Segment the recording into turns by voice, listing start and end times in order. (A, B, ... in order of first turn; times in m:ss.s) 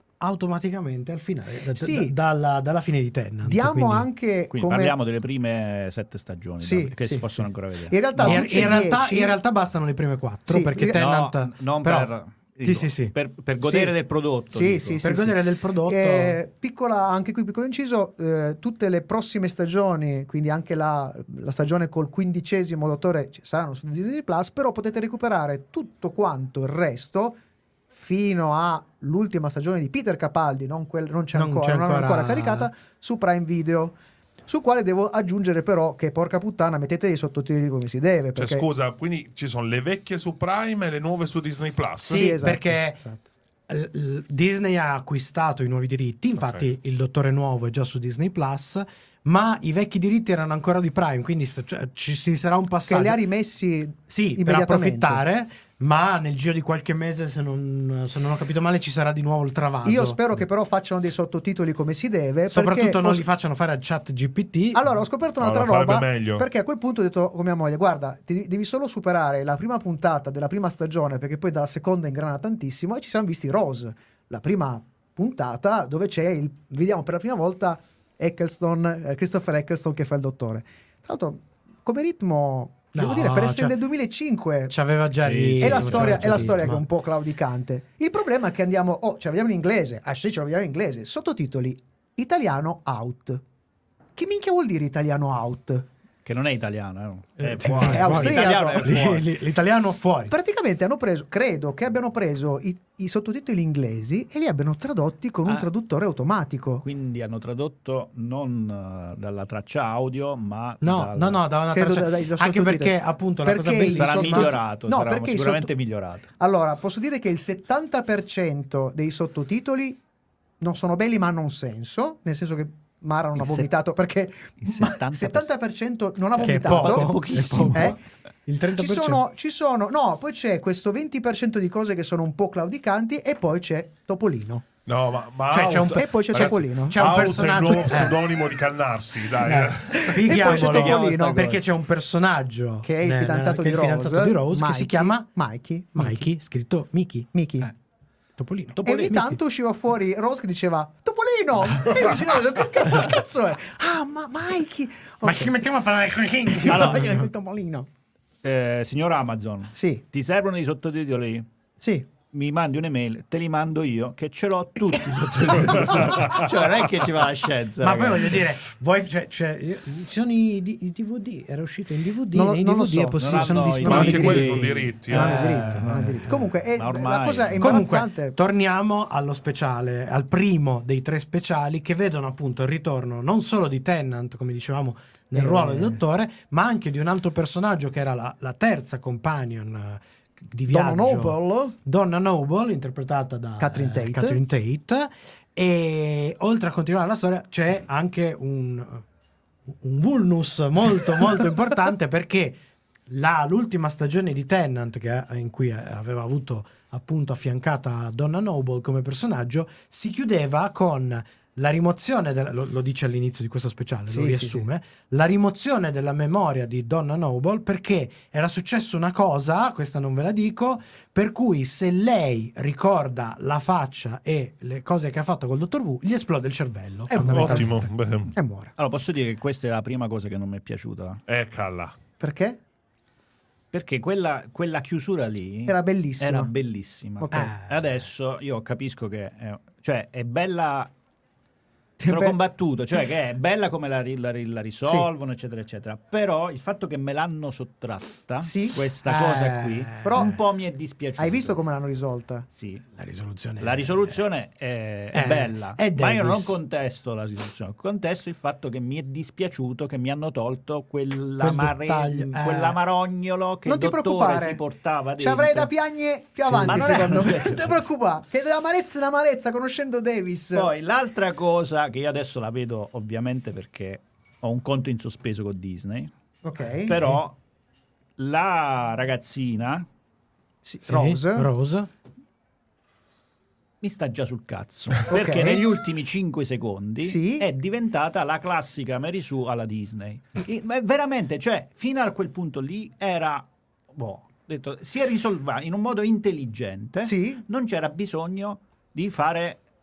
0:00.2-0:04.1 A
0:01.7-0:02.1 B
0:03.4-0:05.0 B
0:04.5-0:08.8 C
0:06.6-0:07.2 B
0:07.9-0:09.4 B
0:08.2-0:12.1 A
0:10.5-0:11.0 B
0:10.8-0:15.0 C
0:12.6-0:13.1 A
0:13.6-0:13.9 B
0:14.5-0:27.4 B
0:15.0-0:16.4 A
0:27.9-0:38.6 B
0:31.3-0:32.7 A
0:38.4-0:42.4 D
0:42.0-0:43.0 A
0:42.0-0:43.3 B
0:43.7-0:53.2 A
0:46.4-0:46.7 D
0:52.9-0:55.2 B
0:54.1-1:00.4 A
0:59.8-1:03.2 B
1:02.5-1:04.8 A
1:04.7-1:24.7 B
1:05.4-1:06.4 D
1:22.9-1:23.8 A
1:24.7-1:26.8 A
1:25.2-1:26.6 C
1:25.6-1:33.4 B
1:34.2-1:35.9 B
1:36.2-1:39.3 C
1:37.4-1:40.3 A
1:37.7-1:39.0 B
1:40.3-1:46.8 B
1:46.8-1:51.4 C
1:50.8-1:54.5 A
1:51.7-1:55.7 B
1:53.9-1:56.3 C
1:56.4-2:00.0 B
2:00.6-2:08.0 B
2:03.4-2:03.7 C
2:04.6-2:05.5 C
2:06.4-2:07.9 C
2:06.4-2:09.2 A
2:08.8-2:14.6 B
2:14.8-2:20.8 D
2:15.5-2:18.3 A
2:15.9-2:17.4 B
2:19.4-2:25.3 A
2:20.0-2:21.6 B
2:20.9-2:21.4 C
2:22.8-2:26.2 B
2:25.9-2:27.3 A
2:27.3-2:27.7 B
2:28.4-2:29.4 A
2:28.8-2:35.6 B
2:35.2-2:37.3 A
2:36.6-2:37.9 B
2:36.7-2:37.0 C
2:38.4-2:41.5 C
2:39.7-2:40.0 B
2:41.8-2:42.1 B
2:42.3-2:48.4 C
2:47.8-2:56.5 A
2:52.3-2:58.4 B
2:53.2-2:57.8 C
2:53.8-2:55.4 D
2:57.6-3:19.0 A
3:05.3-3:06.0 B
3:10.7-3:11.8 B
3:13.6-3:14.4 B
3:19.7-3:47.9 A
3:34.1-3:34.6 B
3:47.1-3:47.8 B
3:47.3-3:48.3 D
3:48.4-3:48.7 B
3:48.8-3:51.2 C
3:51.3-3:51.9 D
3:52.2-3:52.6 B
3:53.7-4:00.9 C
3:55.7-3:56.5 B
3:57.2-3:57.5 B
3:57.3-3:57.9 A
4:02.0-4:02.4 B
4:02.0-4:11.6 C
4:04.8-4:05.1 B
4:08.4-4:08.8 B
4:09.0-4:10.4 A
4:10.0-4:10.4 B
4:11.2-4:12.4 B
4:12.5-4:12.8 C
4:12.9-4:14.2 A
4:13.6-4:25.7 C
4:15.1-4:16.5 A
4:21.4-4:22.8 A
4:23.6-4:24.6 B
4:25.2-4:30.7 B
4:26.5-4:27.8 C
4:26.5-4:27.2 A
4:30.5-4:36.1 C
4:36.4-4:37.0 B
4:36.8-4:37.4 C
4:38.2-4:39.9 C
4:40.6-4:41.5 B
4:40.8-4:41.9 A
4:43.8-4:59.6 C
4:45.1-4:45.6 B
4:47.0-4:47.5 B
4:57.0-4:57.4 B